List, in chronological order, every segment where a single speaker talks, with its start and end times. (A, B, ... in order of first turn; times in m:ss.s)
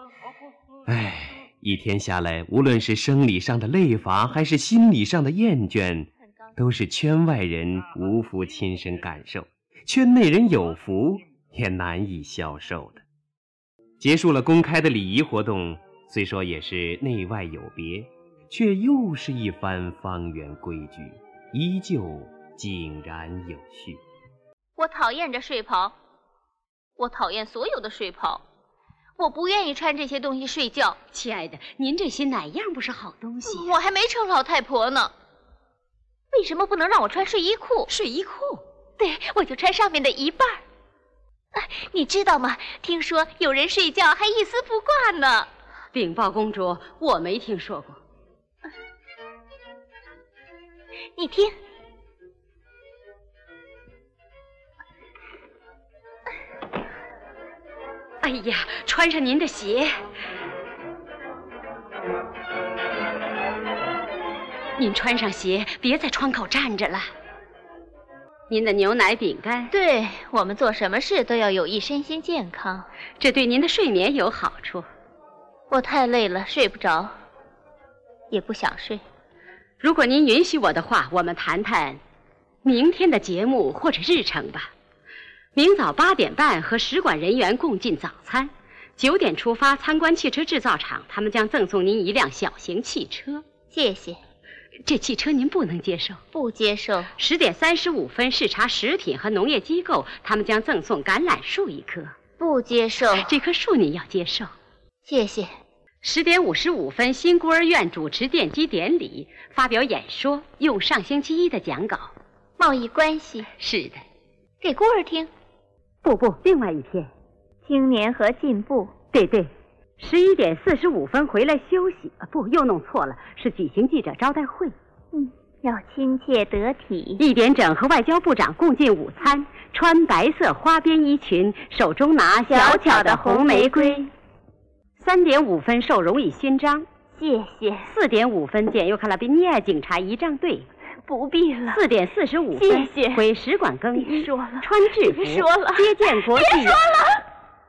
0:00.9-0:13.0 A
0:14.0-0:24.0 A
0:24.8-0:26.0 B
0:27.0-0:28.4 B
0:29.2-0:31.0 B
0:31.1-0:33.7 C
0:33.5-0:35.1 B
0:36.3-0:37.9 B
0:37.9-0:38.6 C
0:39.0-0:40.6 B
0:41.5-0:45.5 B
0:45.9-0:48.0 C
0:51.2-0:51.5 B
0:58.2-0:59.9 C
1:04.8-1:07.1 C
1:08.5-1:09.7 C
1:09.7-1:12.9 B
1:13.2-1:14.9 C
1:15.7-1:17.1 B
1:18.3-1:19.0 B
1:19.8-1:22.0 C
1:22.6-1:24.7 C
1:25.6-1:33.4 C
1:33.7-1:34.2 B
1:34.9-1:36.2 C
1:36.3-1:37.1 B
1:37.2-1:42.1 C
1:42.4-1:43.3 B
1:43.1-1:44.5 C
1:45.1-1:45.5 B
1:46.0-1:52.1 C
1:52.6-1:53.5 B
1:53.6-1:54.0 C
1:54.6-1:55.3 B
1:56.0-1:57.1 C
1:57.6-1:58.9 B
1:59.1-2:04.8 C
2:05.1-2:07.2 B
2:07.2-2:14.1 C
2:12.5-2:14.1 B
2:15.0-2:16.8 C
2:17.2-2:17.9 B
2:17.9-2:20.7 C
2:21.1-2:21.8 B
2:21.7-2:26.8 C
2:22.5-2:23.2 B
2:24.0-2:27.2 B